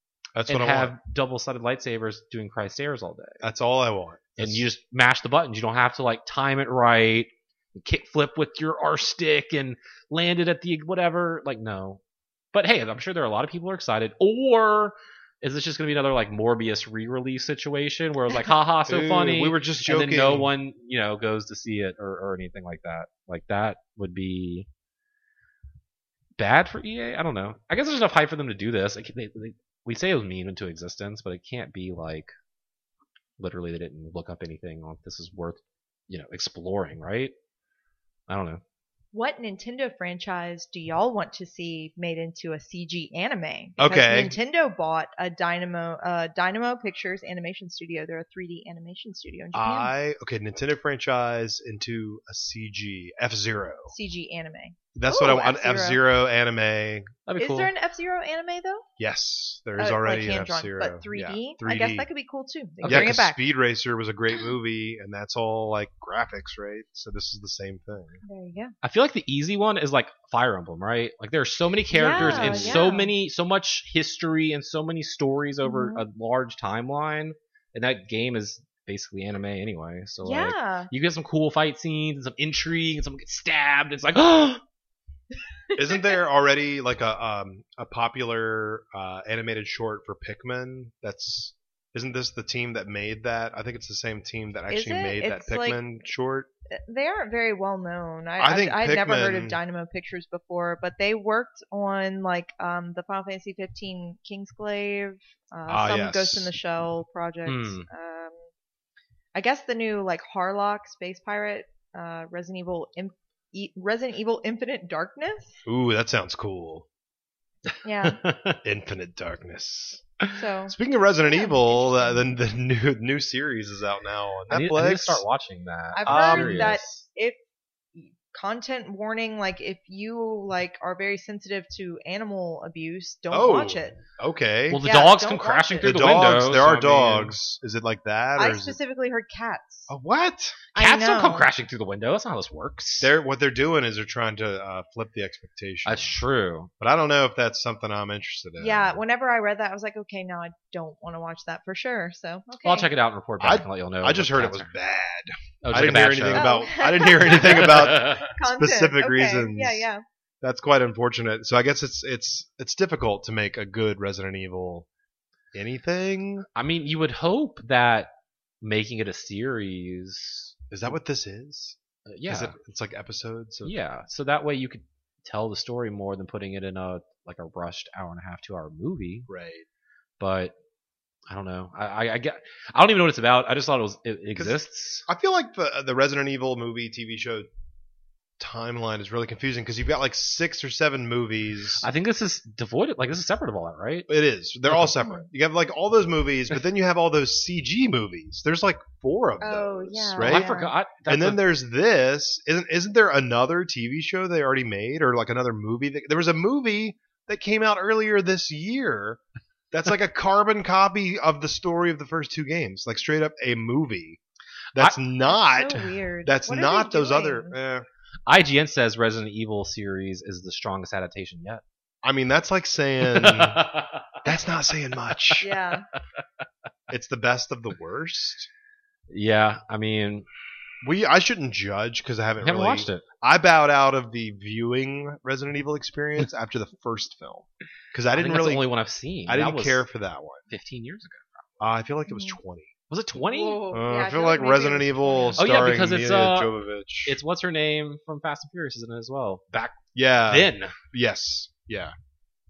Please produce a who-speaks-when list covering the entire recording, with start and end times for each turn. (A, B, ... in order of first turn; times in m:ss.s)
0:00.4-0:00.9 A
0:00.5-0:03.4 B
0:03.4-0:04.6 A
0:04.4-0:12.0 B
0:12.5-0:24.7 B
0:18.9-0:20.5 A
0:26.4-0:32.3 B
0:33.4-0:37.3 B
0:38.3-0:38.6 B
0:39.1-0:49.9 C
0:43.8-0:44.3 A
0:49.5-0:53.9 A
0:53.9-0:56.0 C
0:54.9-0:57.1 A
0:57.2-0:57.7 B
0:57.4-0:58.8 C
0:59.0-1:02.0 A
0:59.8-1:03.4 C
1:02.8-1:03.2 B
1:02.8-1:08.2 A
1:08.2-1:08.7 C
1:08.8-1:24.6 B
1:11.9-1:13.1 C
1:12.1-1:12.8 A
1:15.6-1:16.0 C
1:20.2-1:20.9 C
1:25.7-1:26.2 C
1:25.7-1:36.5 A
1:34.7-1:35.8 C
1:36.7-1:48.4 C
1:38.4-1:39.6 A
1:45.7-1:46.5 A
1:47.4-1:47.8 B
1:49.3-1:55.6 C
1:55.6-1:56.8 A
1:57.8-1:58.2 C
1:58.0-1:58.6 B
1:58.6-2:00.0 A
2:00.3-2:00.7 C
2:00.7-2:05.2 A
2:01.2-2:02.3 C
2:04.5-2:07.0 B
2:05.9-2:07.4 C
2:06.0-2:06.8 A
2:07.9-2:14.0 C
2:13.3-2:14.8 A
2:14.7-2:17.3 B
2:14.8-2:16.2 C
2:15.8-2:18.8 A
2:18.4-2:19.9 C
2:19.9-2:20.6 A
2:20.7-2:21.5 C
2:20.7-2:23.1 B
2:23.0-2:26.2 A
2:25.8-2:26.7 B
2:26.8-2:29.0 A
2:28.6-2:32.9 C
2:32.6-2:34.7 B
2:33.4-2:39.9 A
2:35.6-2:36.5 B
2:36.3-2:40.0 C
2:37.2-2:38.3 B
2:40.4-2:44.9 A
2:45.5-2:46.5 A
2:46.5-2:48.1 B
2:48.6-2:50.5 B
2:50.7-2:53.8 A
2:52.0-2:52.6 B
2:53.6-2:59.3 B
2:59.3-2:59.6 A
3:00.2-3:00.5 B
3:01.3-3:05.0 B
3:04.4-3:07.5 A
3:08.4-3:11.8 A
3:11.8-3:14.1 B
3:14.1-3:20.5 A
3:14.7-3:15.0 B
3:19.4-3:20.7 C
3:20.2-3:21.4 B
3:21.1-3:34.2 A
3:34.7-3:37.8 A
3:35.2-3:37.5 C
3:38.3-3:41.6 B
3:42.0-3:43.7 A
3:43.0-3:44.3 B
3:44.2-3:45.5 A
3:45.1-3:45.5 B
3:45.4-3:45.9 C
3:46.9-3:48.5 A
3:49.1-3:50.3 B
3:50.8-3:58.7 A
3:52.4-3:53.0 B
3:58.1-3:59.8 B
3:59.3-4:00.5 A
4:00.5-4:01.4 B
4:01.6-4:02.7 A
4:02.1-4:02.4 C
4:02.9-4:03.7 B
4:03.2-4:05.4 C
4:03.7-4:07.2 A
4:05.4-4:06.5 B
4:07.0-4:10.8 B
4:09.8-4:11.9 A